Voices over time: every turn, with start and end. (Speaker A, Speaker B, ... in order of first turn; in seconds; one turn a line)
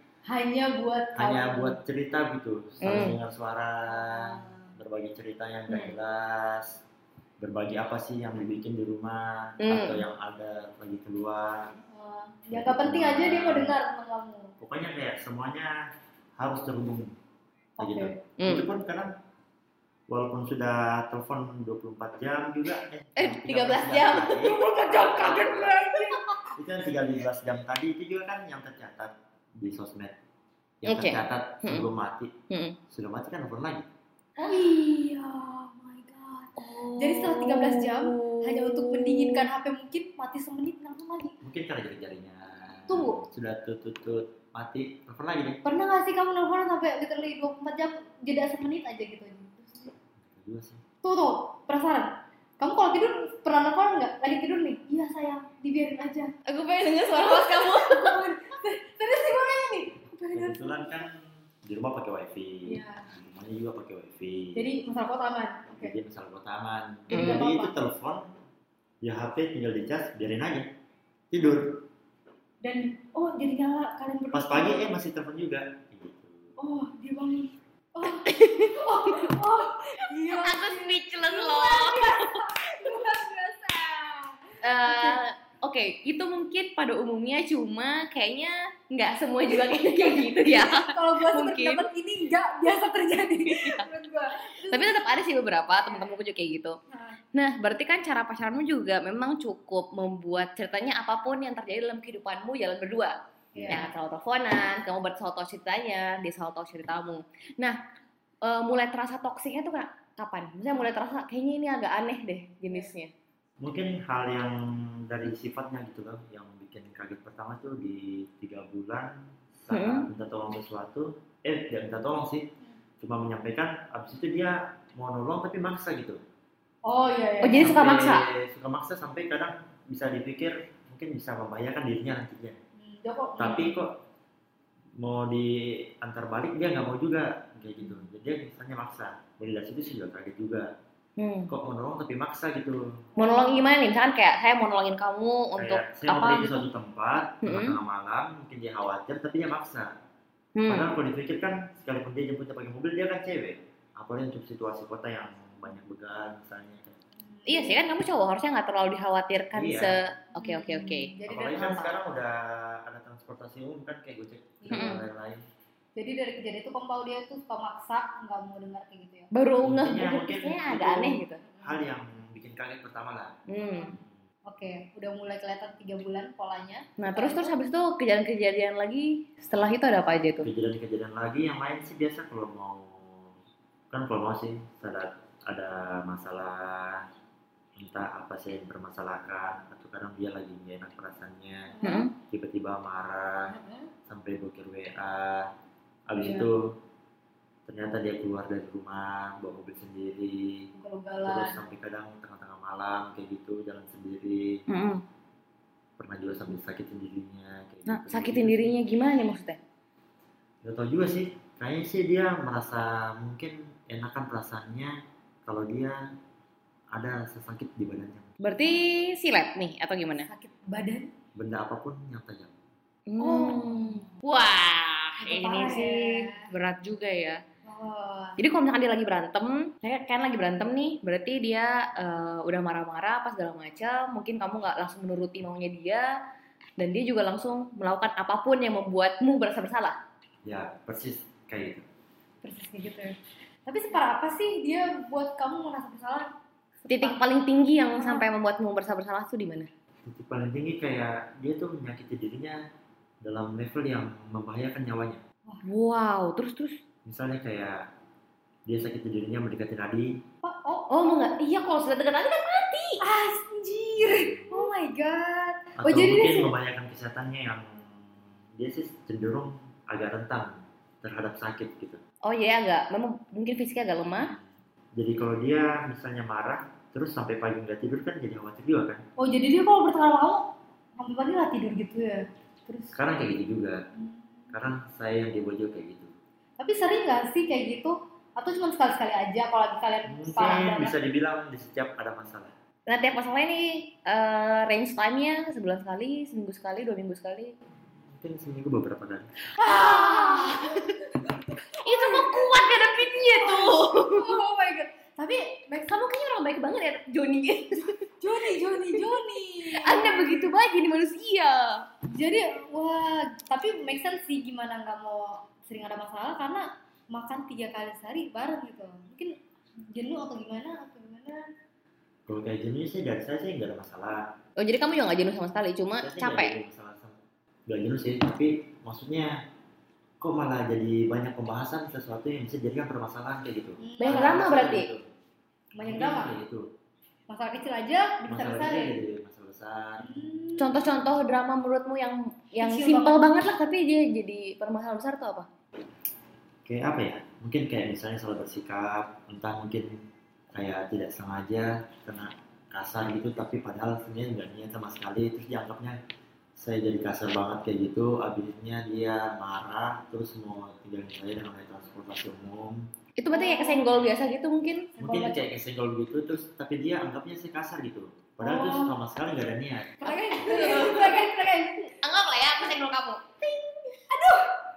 Speaker A: 0.3-1.8
Speaker B: 1.1-6.8
Speaker C: 2.8-3.2
Speaker A: 3.9-4.7
Speaker C: 5.7-6.0
Speaker B: 7.4-11.7
Speaker C: 9.6-10.0
Speaker A: 11.9-14.6
Speaker B: 12.5-13.8
Speaker B: 14.6-15.7
Speaker B: 16.4-17.1
Speaker A: 17.8-18.2
Speaker B: 17.8-19.1
Speaker C: 18.4-18.7
Speaker B: 20.1-25.9
Speaker C: 23.2-24.5
Speaker A: 24.4-26.5
Speaker B: 26.6-30.2
Speaker B: 30.8-32.3
Speaker C: 30.9-31.9
Speaker C: 32.5-32.8
Speaker B: 32.9-33.9
Speaker A: 34.4-41.4
Speaker C: 36.6-39.5
Speaker B: 41.4-45.6
Speaker A: 42.9-43.2
Speaker A: 45.6-49.9
Speaker B: 50.2-50.8
Speaker A: 51.0-56.4
Speaker C: 56.5-58.2
Speaker A: 57.1-61.0
Speaker B: 60.3-64.7
Speaker A: 62.7-63.1
Speaker A: 64.5-66.0
Speaker B: 65.7-68.3
Speaker A: 67.1-67.7
Speaker C: 67.1-67.4
Speaker B: 69.0-70.7
Speaker B: 71.3-71.9
Speaker A: 72.6-75.0
Speaker B: 74.3-76.6
Speaker A: 76.6-85.2
Speaker C: 78.2-79.3
Speaker C: 80.3-82.4
Speaker C: 84.6-91.8
Speaker A: 89.5-95.3
Speaker C: 93.4-93.8
Speaker C: 94.6-96.8
Speaker A: 96.9-97.2
Speaker C: 97.3-103.1
Speaker B: 103.5-103.9
Speaker A: 103.5-103.8
Speaker C: 103.7-107.8
Speaker C: 108.4-113.1
Speaker B: 113.6-122.5
Speaker C: 119.7-120.1
Speaker B: 123.0-126.2
Speaker A: 126.8-127.8
Speaker C: 127.4-128.2
Speaker B: 127.6-132.6
Speaker A: 132.8-133.8
Speaker B: 133.4-133.9
Speaker B: 135.0-140.7
Speaker C: 141.2-141.5
Speaker B: 141.5-142.8
Speaker A: 143.2-143.7
Speaker C: 143.2-146.7
Speaker B: 145.6-149.9
Speaker C: 147.4-147.8
Speaker C: 150.6-150.9
Speaker B: 150.7-156.9
Speaker A: 157.3-157.8
Speaker C: 157.5-161.9
Speaker B: 159.5-159.9
Speaker A: 160.4-161.9
Speaker B: 161.2-165.4
Speaker A: 164.6-165.0
Speaker C: 164.7-165.0
Speaker A: 166.0-169.3
Speaker C: 169.3-171.4
Speaker B: 169.6-173.3
Speaker A: 171.4-171.8
Speaker C: 173.5-174.0
Speaker A: 174.5-177.6
Speaker C: 177.0-180.5
Speaker B: 180.4-183.4
Speaker B: 183.9-187.0
Speaker B: 187.8-191.8
Speaker A: 191.7-192.1
Speaker C: 191.8-192.1
Speaker B: 192.3-193.5
Speaker A: 193.5-193.9
Speaker B: 194.1-195.5
Speaker B: 196.1-196.7
Speaker A: 196.2-196.5
Speaker B: 197.7-200.7
Speaker A: 200.8-201.6
Speaker B: 201.2-204.6
Speaker C: 204.7-205.0
Speaker B: 206.0-208.7
Speaker C: 207.9-209.6
Speaker B: 210.6-214.9
Speaker B: 215.5-216.0
Speaker B: 216.9-218.3
Speaker C: 218.4-220.3
Speaker A: 220.3-221.1
Speaker B: 221.4-222.5
Speaker C: 223.1-227.4
Speaker A: 223.2-224.1
Speaker A: 225.2-226.5
Speaker A: 227.7-228.4
Speaker C: 228.4-236.1
Speaker C: 236.8-240.0
Speaker B: 240.4-241.8
Speaker A: 242.4-243.2
Speaker A: 243.7-246.3
Speaker A: 246.8-247.3
Speaker C: 246.9-249.7
Speaker A: 247.9-248.3
Speaker B: 250.1-252.6
Speaker B: 253.2-255.2
Speaker C: 255.6-256.8
Speaker B: 257.1-257.8
Speaker B: 258.7-260.2
Speaker A: 260.4-260.9
Speaker C: 260.9-263.0
Speaker A: 263.0-266.5
Speaker B: 264.0-264.6
Speaker B: 265.8-272.0
Speaker C: 272.2-274.3
Speaker B: 274.2-279.0
Speaker A: 279.2-283.0
Speaker B: 282.9-283.8
Speaker A: 283.9-284.6
Speaker B: 284.5-286.1
Speaker A: 286.6-290.9
Speaker B: 290.1-292.5
Speaker C: 292.9-297.6
Speaker B: 298.1-299.3
Speaker A: 299.6-306.0
Speaker C: 299.6-301.0
Speaker C: 301.8-304.4
Speaker C: 305.8-308.1
Speaker A: 308.2-310.5
Speaker C: 309.6-311.9
Speaker A: 312.1-319.4
Speaker A: 319.9-321.5
Speaker B: 322.3-324.2
Speaker C: 324.6-326.5
Speaker B: 326.0-327.1
Speaker B: 327.7-329.3
Speaker B: 330.2-335.1
Speaker A: 333.8-334.4
Speaker C: 334.0-334.9
Speaker A: 335.8-336.4
Speaker B: 335.8-336.6
Speaker A: 337.3-339.0
Speaker B: 338.3-340.2
Speaker A: 340.0-340.9
Speaker C: 340.6-345.5
Speaker A: 342.6-343.3
Speaker B: 346.7-350.0
Speaker B: 350.5-356.0
Speaker B: 356.6-362.9
Speaker C: 363.2-364.9
Speaker A: 363.3-364.1
Speaker A: 365.0-365.5
Speaker B: 365.0-370.5
Speaker A: 368.4-369.0
Speaker A: 370.0-372.0
Speaker C: 370.1-371.2
Speaker C: 372.0-373.4
Speaker A: 373.6-374.6